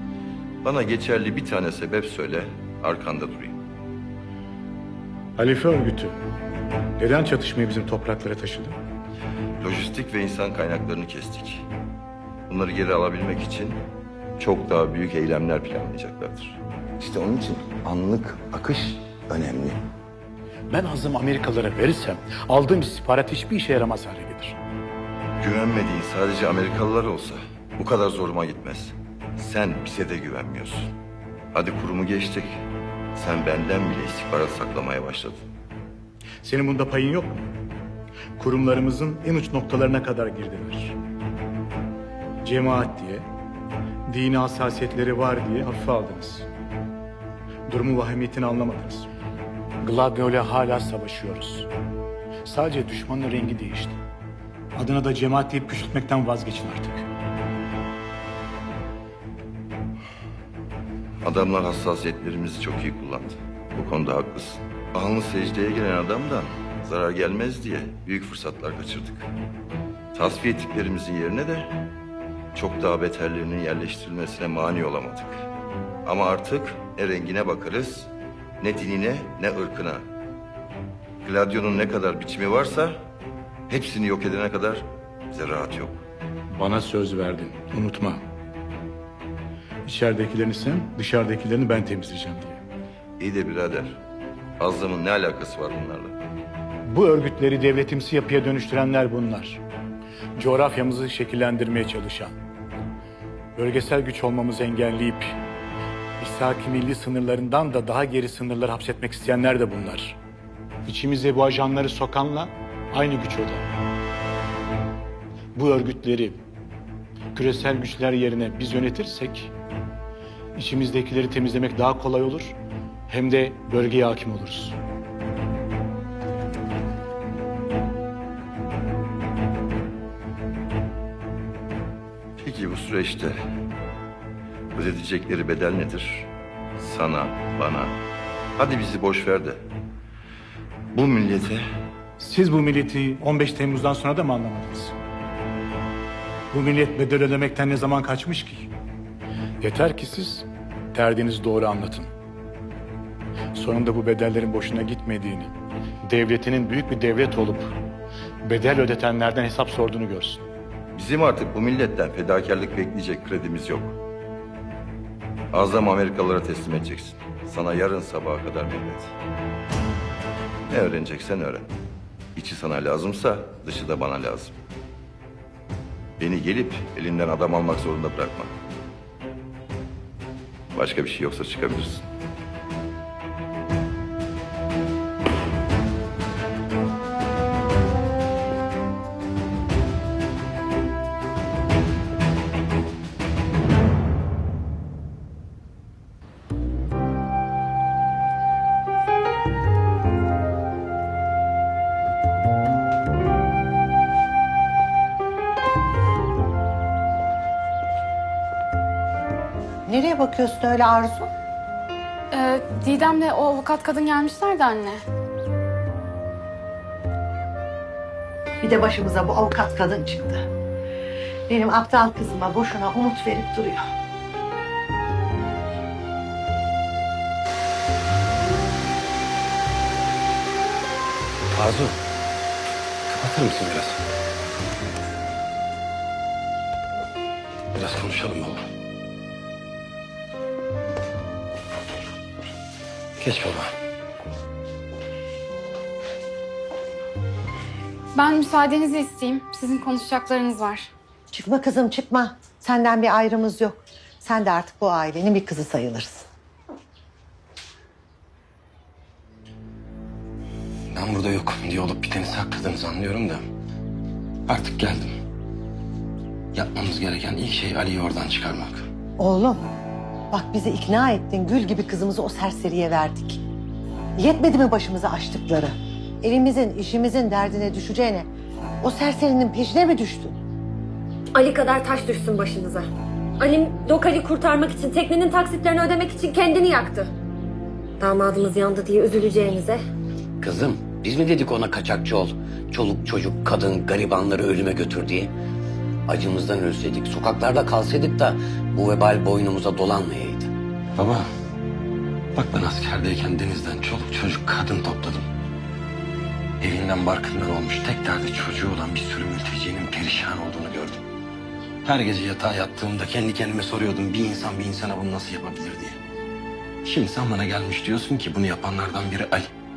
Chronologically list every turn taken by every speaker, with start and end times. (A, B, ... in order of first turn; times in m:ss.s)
0:00.6-0:03.6 A
0:05.4-0:06.2 B
0:07.0-0:08.8 B
0:09.6-0:11.7 A
0:12.5-0:13.8 A
0:14.4-0:19.8 A
0:20.7-0:24.6 B
0:25.4-0:30.9 A
0:31.5-0:32.6 A
0:33.2-0:35.4 A
0:36.4-0:37.5 B
0:38.4-0:41.0 B
0:42.4-0:43.3 B
0:44.1-0:46.5 B
0:47.7-0:49.1 B
0:49.8-0:51.7 B
0:52.4-0:54.0 B
0:54.8-0:57.1 B
1:01.2-1:09.3 A
1:10.2-1:11.7 A
1:12.6-1:15.4 A
1:16.0-1:18.1 A
1:18.6-1:20.0 A
1:21.2-1:23.0 A
1:23.7-1:26.0 A
1:26.5-1:28.2 B
1:29.8-1:32.6 B
1:33.2-1:34.0 A
1:34.6-1:36.2 A
1:36.8-1:39.6 B
1:40.4-1:42.4 B
1:43.6-1:45.4 B
1:46.2-1:50.2 B
1:50.9-1:53.7 B
1:55.5-1:56.4 B
1:57.3-1:59.5 B
2:00.6-2:02.6 B
2:03.1-2:04.8 B
2:12.4-2:13.4 A
2:14.8-2:18.0 A
2:18.6-2:19.6 A
2:20.9-2:21.6 A
2:22.2-2:25.0 B
2:26.5-2:28.7 B
2:29.6-2:32.1 B
2:33.5-2:35.5 B
2:36.0-2:37.8 B
2:38.4-2:40.4 B
2:41.0-2:44.0 A
2:45.5-2:49.1 A
2:50.7-2:51.7 A
2:52.4-2:54.6 A
2:56.2-2:58.5 A
3:00.8-3:02.0 A
3:29.9-3:31.3 C
3:32.3-3:35.0 D
3:38.6-3:40.4 C
3:41.5-3:43.8 C
3:51.5-3:52.0 E
3:53.1-3:54.0 E
3:57.7-3:58.6 E
4:03.2-4:03.7 E
4:08.2-4:10.9 D
4:11.3-4:16.3 C
4:20.9-4:23.4 E
4:24.5-4:25.1 E
4:26.5-4:28.9 E
4:29.2-4:29.6 C
4:30.3-4:33.4 C
4:34.2-4:38.3 C
4:38.8-4:40.4 C
4:41.3-4:42.9 F
4:43.4-4:47.1 F
4:48.0-4:49.8 F
4:50.4-4:55.3 G
4:56.1-5:00.5 G
5:01.0-5:01.2 E
5:02.4-5:05.3 E
5:06.6-5:11.0 E
5:11.8-5:16.0 E
5:16.8-5:19.5 E